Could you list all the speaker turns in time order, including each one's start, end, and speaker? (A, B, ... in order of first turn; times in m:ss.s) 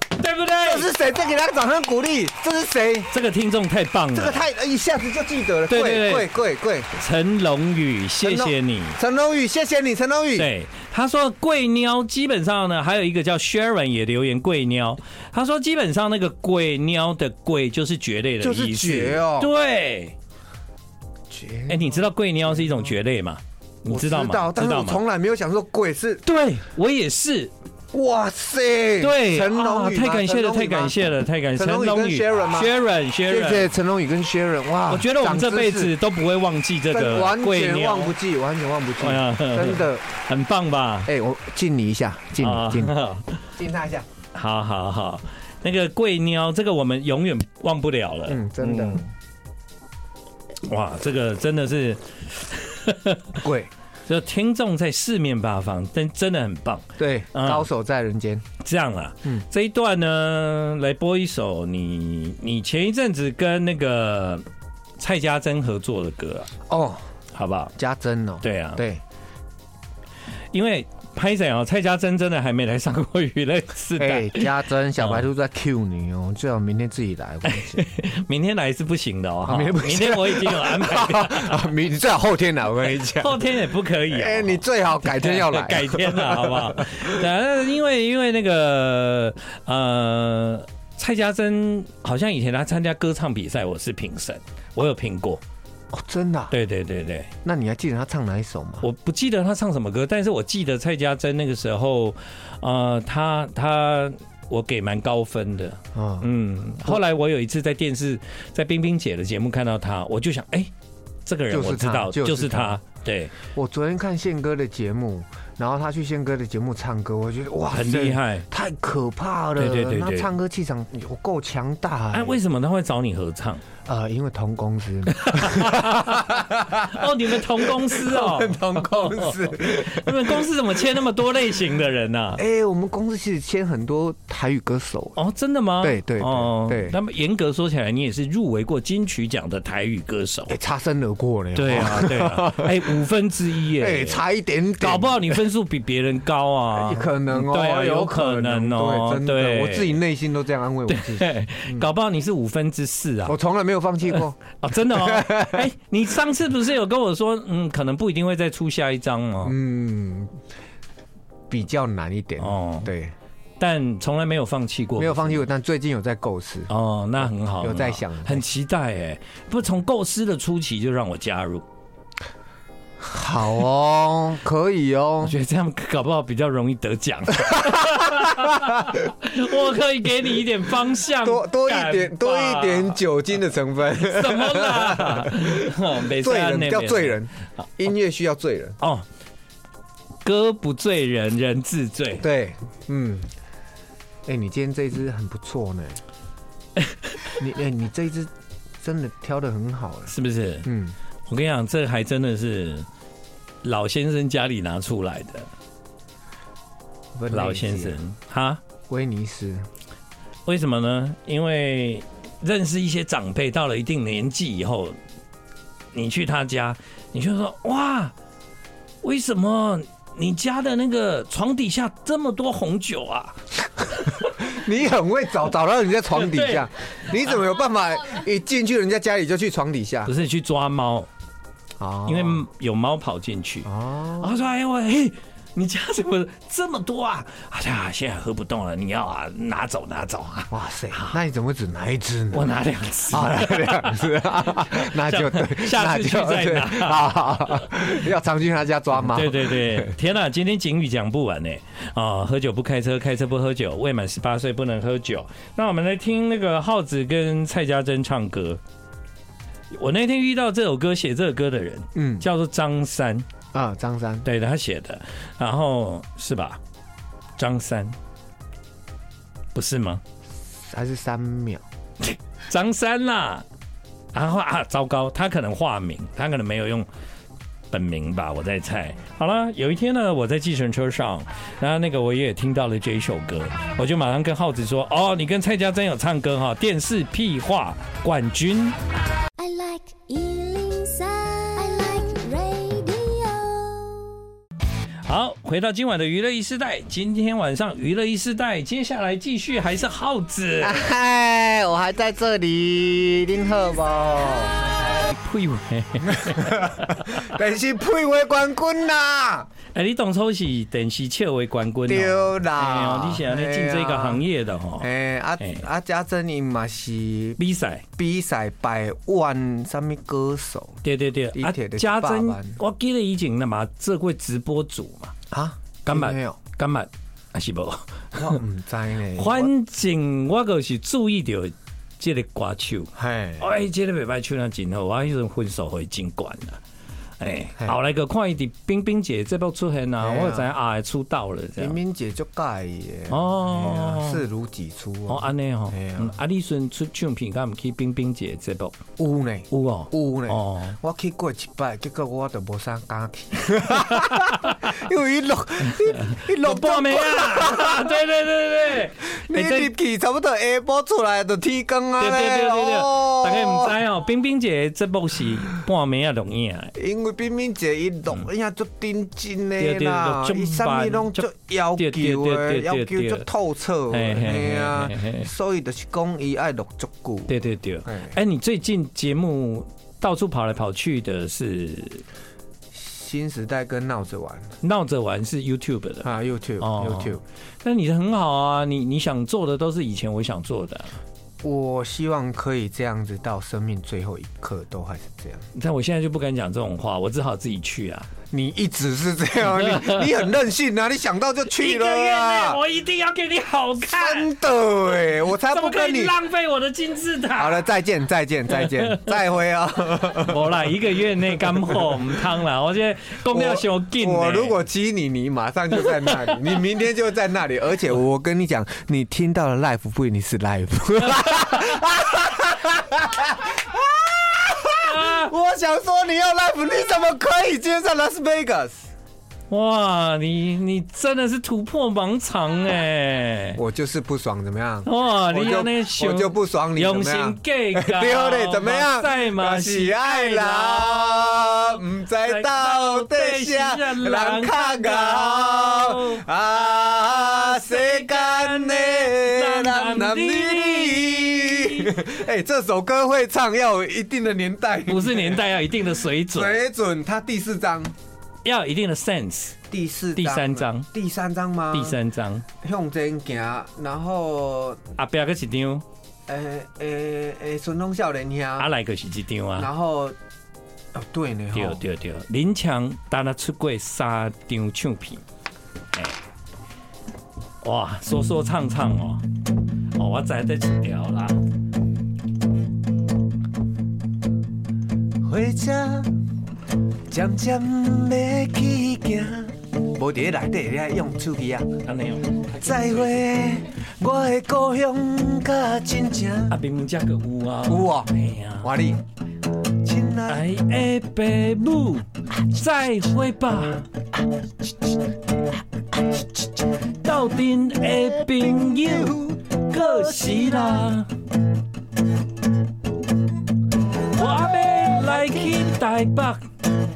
0:00.2-0:00.9 A
0:00.5-0:03.1 B
0:03.1-0:04.4 A
0:04.1-0:06.9 B
0:05.7-0:06.3 A
0:07.0-0:09.0 A
0:08.2-0:10.5 B
0:10.4-0:20.2 A
0:18.4-0:19.5 B
0:21.3-0:22.8 B
0:21.7-0:25.0 A
0:23.9-0:26.2 B
0:26.2-0:27.5 A
0:27.9-0:31.0 B
0:29.0-0:33.7 A
0:31.6-0:32.7 B
0:33.3-0:35.9 B
0:34.9-0:38.2 A
0:36.9-0:40.0 B
0:39.0-0:41.1 A
0:41.1-0:43.0 B
0:42.4-0:43.4 A
0:43.6-0:44.1 B
0:44.4-0:49.0 A
0:48.3-0:49.1 B
0:50.6-0:53.4 A
0:53.4-0:53.7 B
0:54.1-0:57.7 A
0:57.0-0:58.4 B
0:58.6-1:04.4 A
1:05.0-1:06.5 A
1:06.7-1:07.0 B
1:07.3-1:07.7 A
1:07.8-1:09.0 B
1:08.4-1:08.8 A
1:10.5-1:15.2 A
1:14.0-1:17.8 B
1:17.5-1:21.7 A
1:19.5-1:23.4 B
1:23.1-1:35.4 A
1:24.1-1:27.2 B
1:35.9-1:36.5 B
1:36.5-1:37.3 A
1:37.4-1:38.9 B
1:38.8-1:50.7 A
1:45.9-1:46.3 B
1:51.2-1:53.4 A
1:51.5-1:52.8 B
1:53.4-2:02.4 B
1:57.7-1:58.5 A
1:59.6-2:00.3 A
2:02.1-2:03.6 A
2:03.8-2:10.5 B
2:05.2-2:12.4 A
2:12.4-2:15.2 B
2:15.2-2:20.6 A
2:15.8-2:17.0 B
2:20.5-2:22.9 B
2:21.6-2:24.2 A
2:23.8-2:25.4 B
2:24.8-2:30.0 A
2:26.7-2:31.9 B
2:30.9-2:33.4 A
2:33.3-2:35.7 B
2:34.1-2:39.6 A
2:39.4-2:40.4 B
2:41.5-2:43.1 B
2:42.4-2:42.9 A
2:43.6-2:45.4 A
2:45.0-2:46.7 B
2:46.7-2:51.6 A
2:47.6-2:48.4 B
2:53.0-2:55.4 B
2:55.2-3:03.0 A
2:57.5-2:58.9 B
3:01.2-3:08.8 B
3:04.0-3:07.2 A
3:08.8-3:09.0 A
3:10.2-3:12.2 A
3:12.2-3:13.3 B
3:14.3-3:16.0 B
3:16.8-3:17.3 A
3:17.4-3:20.1 B
3:20.1-3:20.7 A
3:20.6-3:21.0 B
3:21.3-3:22.9 A
3:23.6-3:25.5 A
3:27.2-3:28.0 B
3:27.3-3:28.6 A
3:28.9-3:29.7 B
3:30.5-3:35.0 A
3:35.9-3:38.1 A
3:39.0-3:44.3 A
3:44.4-3:50.1 B
3:46.1-3:46.7 A
3:50.1-3:51.1 A
3:51.8-3:52.4 B
3:52.1-4:01.2 A
3:53.6-3:54.4 B
4:00.5-4:02.5 B
4:02.3-4:07.8 A
4:03.1-4:10.0 B
4:09.0-4:18.6 A
4:19.7-4:23.3 A
4:22.0-4:22.3 B
4:23.5-4:24.3 B
4:24.2-4:26.6 A
4:27.4-4:28.0 A
4:29.5-4:30.0 A
4:30.5-4:31.6 B
4:32.0-4:33.4 A
4:34.1-4:36.9 A
4:37.7-4:48.8 A
4:49.4-4:54.1 C
4:55.1-5:00.8 A
5:00.6-5:04.7 B
5:05.0-5:07.3 A
5:06.0-5:09.5 B
5:09.7-5:14.9 A
5:11.9-5:14.2 B
5:14.8-5:17.4 B
5:17.4-5:17.8 A
5:18.0-5:22.6 B
5:20.8-5:25.1 A
5:25.3-5:26.4 B
5:25.9-5:28.4 A
5:28.2-5:29.5 B
5:29.2-5:36.6 A
5:33.0-5:33.5 B
5:37.2-5:41.8 A
5:40.0-5:40.5 B
5:41.6-5:46.2 B
5:43.1-5:44.2 A
5:45.1-5:48.8 A
5:49.0-5:58.0 B
5:49.5-5:50.8 A
5:54.0-5:54.7 A
5:55.9-5:59.7 A
5:59.2-6:03.8 B
6:02.0-6:06.7 A
6:06.8-6:17.3 B
6:09.6-6:13.3 A
6:13.9-6:15.3 A
6:17.3-6:22.0 A
6:17.8-6:18.2 B
6:22.7-6:24.6 B
6:24.6-6:26.1 A
6:26.0-6:27.2 B
6:26.6-6:31.0 A
6:31.4-6:35.5 B
6:35.6-6:38.1 A
6:38.3-6:42.6 B
6:39.6-6:40.2 A
6:41.5-6:44.3 A
6:43.8-6:46.1 B
6:45.5-6:47.7 A
6:47.4-6:50.7 B
6:48.5-6:49.2 A
6:50.2-6:54.6 A
6:51.7-6:52.0 B
6:53.3-7:08.9 B
6:56.1-6:56.3 A
7:01.1-7:01.8 A
7:04.8-7:05.3 A
7:09.5-7:13.6 A
7:13.6-7:35.5 B
7:14.8-7:21.2 A
7:22.2-7:26.2 A
7:27.3-7:31.9 A
7:34.9-7:36.6 A
7:36.3-7:37.9 B
7:38.4-7:39.6 A
7:39.7-7:42.0 B
7:40.2-7:40.9 A
7:41.7-7:42.4 A
7:42.6-7:44.8 B
7:45.0-7:45.8 A
7:46.3-7:48.7 B
7:48.6-7:49.7 A
7:49.6-7:50.2 B
7:50.9-7:51.8 B
7:51.5-7:55.2 A
7:57.6-7:59.2 A
8:00.0-8:01.4 A
8:05.2-8:06.1 B
8:07.1-8:11.7 B
8:11.8-8:13.4 A
8:12.6-8:16.6 B
8:16.5-8:18.7 A
8:17.7-8:19.0 B
8:19.8-8:20.5 B
8:20.3-8:23.9 A
8:27.0-8:31.1 A
8:28.3-8:30.9 B
8:34.1-8:36.5 A